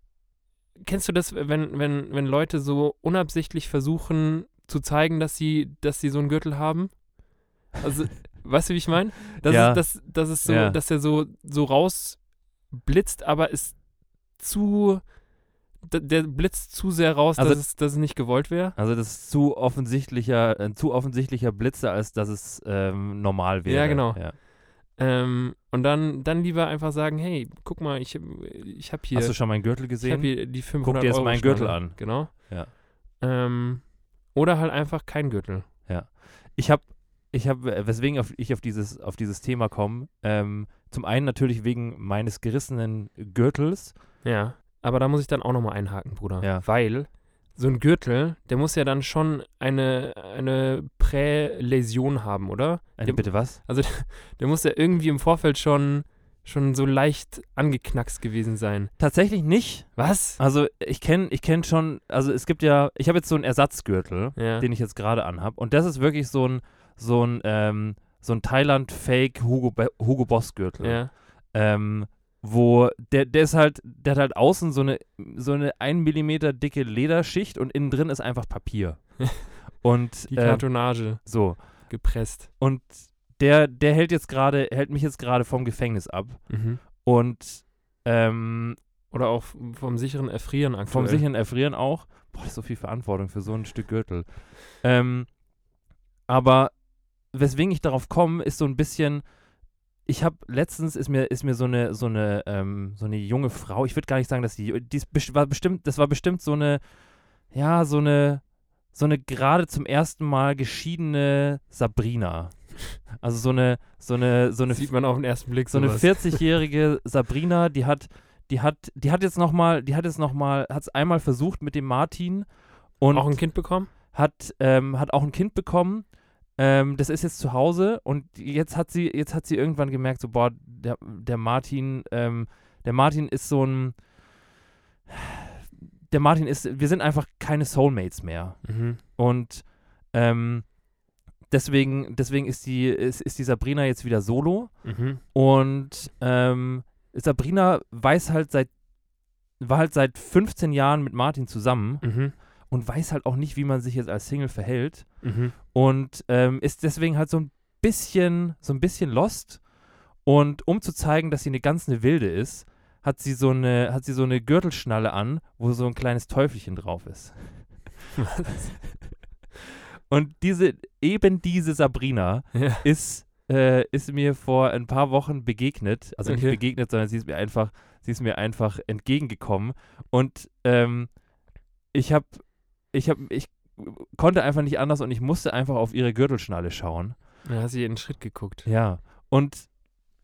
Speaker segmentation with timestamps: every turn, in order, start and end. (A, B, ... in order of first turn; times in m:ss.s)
0:00.8-0:18.8 A
0:09.4-0:10.8 B
0:17.4-0:24.4 B
0:23.6-0:35.7 A
0:29.1-0:32.7 B
0:35.9-0:44.0 B
0:44.2-0:58.9 A
0:46.4-0:46.6 B
0:53.0-0:53.6 B
0:59.0-1:28.8 B
1:00.0-1:00.4 A
1:04.4-1:04.7 A
1:10.8-1:11.1 A
1:20.3-1:22.5 A
1:26.5-1:26.8 A
1:29.1-1:31.3 A
1:30.9-1:35.5 B
1:36.3-1:39.3 B
1:40.0-2:14.2 B
1:54.7-1:56.5 A
2:03.1-2:03.9 A
2:15.1-2:20.8 B
2:18.6-2:19.0 A
2:21.4-2:28.8 B
2:24.8-2:25.2 A
2:29.5-2:48.0 B
2:32.0-2:32.3 A
2:35.2-2:35.5 A
2:48.2-2:48.6 A
2:50.1-3:07.2 B
2:52.5-2:52.8 A
2:56.2-2:56.6 A
3:07.4-3:08.7 A
3:08.6-3:09.8 B